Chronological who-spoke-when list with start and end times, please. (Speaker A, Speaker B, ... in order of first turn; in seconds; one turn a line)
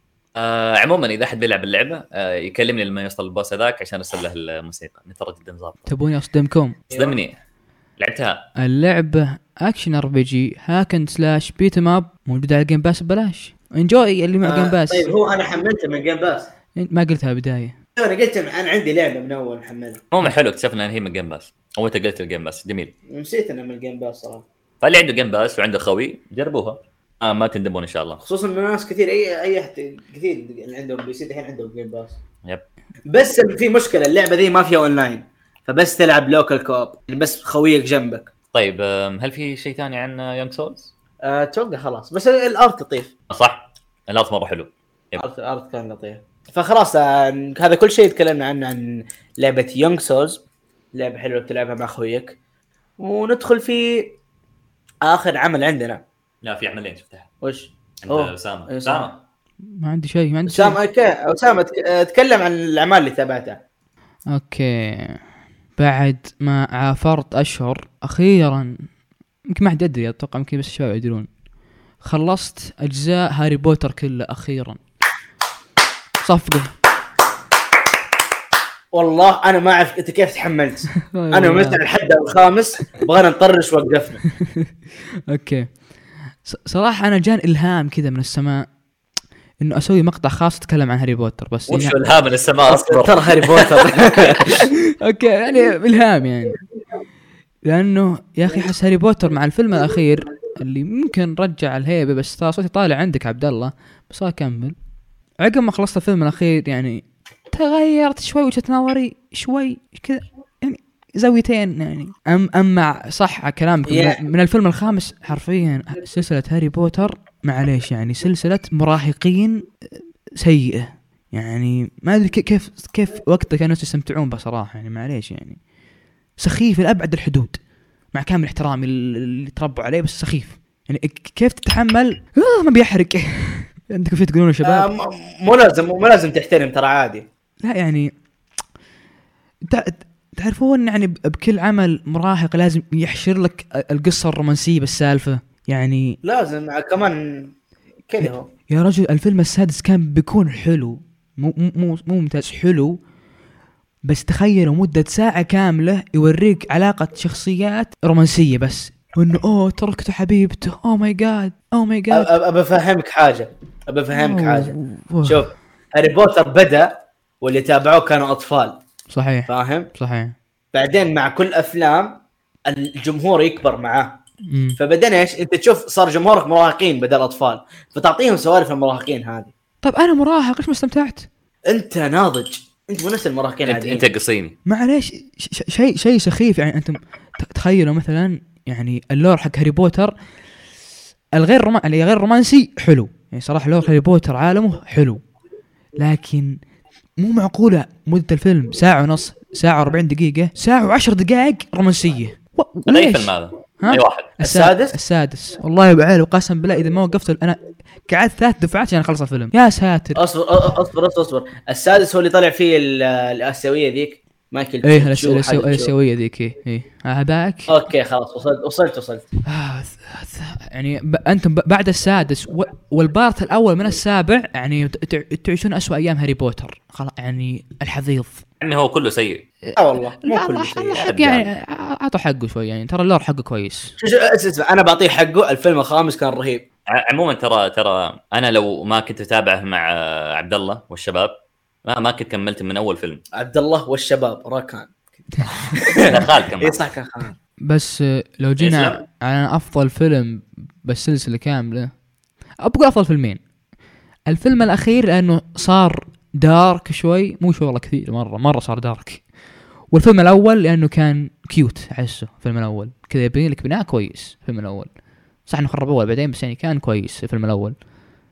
Speaker A: 0.3-5.8
Speaker B: 5.9-6.8
Speaker A: 6.9-7.4
Speaker C: 6.9-7.2
Speaker A: 8.0-8.4
Speaker B: 8.6-15.1
Speaker C: 14.4-16.5
Speaker B: 16.8-17.7
Speaker C: 17.9-20.0
Speaker A: 20.1-22.9
Speaker C: 23.1-24.4
Speaker A: 24.8-28.2
Speaker C: 28.2-32.2
Speaker C: 33.1-38.3
Speaker A: 38.5-40.9
Speaker C: 41.2-43.1
Speaker A: 43.3-45.2
Speaker C: 45.2-50.4
Speaker C: 50.9-52.4
Speaker C: 53.0-54.2
Speaker C: 55.0-56.0
Speaker A: 56.4-57.3
Speaker C: 57.4-59.1
Speaker A: 58.0-59.2
Speaker B: 59.7-60.8
Speaker C: 60.5-63.6
Speaker B: 64.3-65.2
Speaker B: 65.8-68.9
Speaker B: 69.5-71.3
Speaker B: 72.0-74.8
Speaker B: 76.2-76.7
Speaker C: 78.9-84.2
Speaker B: 81.1-81.8
Speaker B: 85.3-85.8
Speaker B: 86.4-88.7
Speaker B: 89.6-92.0
Speaker A: 91.7-94.2
Speaker C: 92.6-94.6
Speaker B: 95.0-96.6
Speaker B: 97.7-104.7
Speaker B: 105.4-119.7
Speaker C: 113.9-114.2
Speaker B: 120.4-125.6
Speaker B: 126.4-127.6
Speaker B: 128.1-134.9
Speaker C: 134.6-137.3
Speaker B: 137.6-138.1
Speaker B: 139.7-146.2
Speaker C: 146.2-147.5
Speaker C: 148.1-148.5
Speaker B: 148.2-153.0
Speaker B: 154.0-162.3
Speaker C: 162.1-168.8
Speaker B: 164.1-165.4
Speaker B: 169.1-170.3
Speaker C: 169.5-169.9
Speaker C: 170.7-174.2
Speaker B: 174.5-174.8
Speaker C: 174.8-179.5
Speaker B: 179.8-181.3
Speaker C: 181.7-184.0
Speaker A: 183.6-184.6
Speaker B: 184.7-190.1
Speaker B: 191.3-195.2
Speaker B: 195.9-196.6
Speaker B: 197.2-210.2
Speaker A: 202.9-204.3
Speaker C: 204.4-205.0
Speaker C: 210.2-215.9
Speaker B: 214.8-217.8
Speaker C: 217.7-219.2
Speaker B: 219.4-228.4
Speaker A: 228.6-229.4
Speaker B: 229.7-233.9
Speaker C: 229.8-231.1
Speaker A: 231.0-231.5
Speaker C: 234.0-236.6
Speaker A: 236.9-243.2
Speaker C: 243.3-247.4
Speaker A: 246.0-246.8
Speaker B: 247.6-252.0
Speaker A: 248.6-249.0
Speaker B: 252.6-253.4
Speaker B: 254.3-259.3
Speaker B: 259.9-264.9
Speaker B: 265.4-267.7